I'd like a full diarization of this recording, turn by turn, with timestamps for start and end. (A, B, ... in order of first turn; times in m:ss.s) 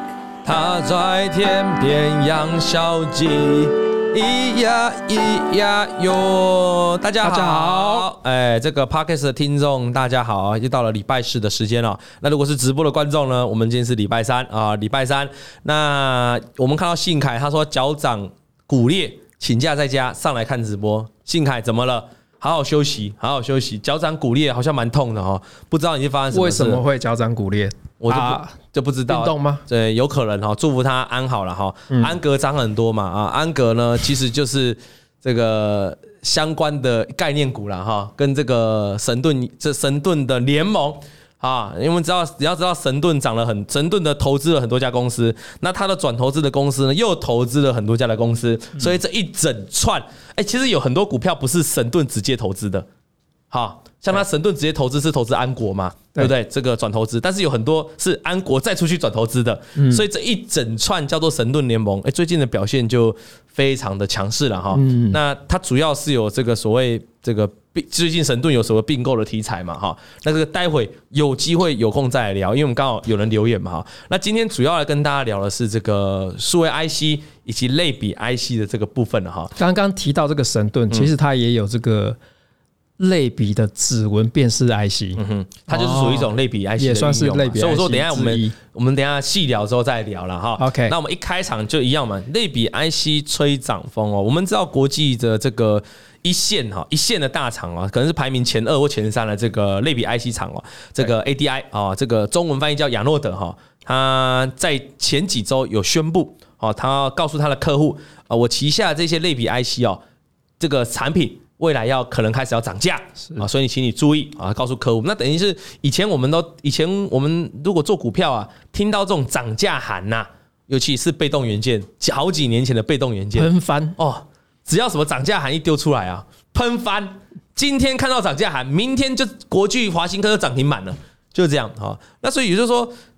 0:00.4-0:26.8 A
0:07.2-0:08.1 B
0:26.3-0:28.6 B
0:28.0-0:52.9 A
0:29.1-0:29.6 B
0:53.5-1:19.5 A
0:59.8-1:00.0 B
1:04.7-1:05.2 B
1:19.6-1:22.2 B
1:23.0-1:28.6 B
1:25.2-1:50.0 A
1:30.6-1:30.9 B
1:50.6-2:12.9 A
2:03.4-2:04.0 B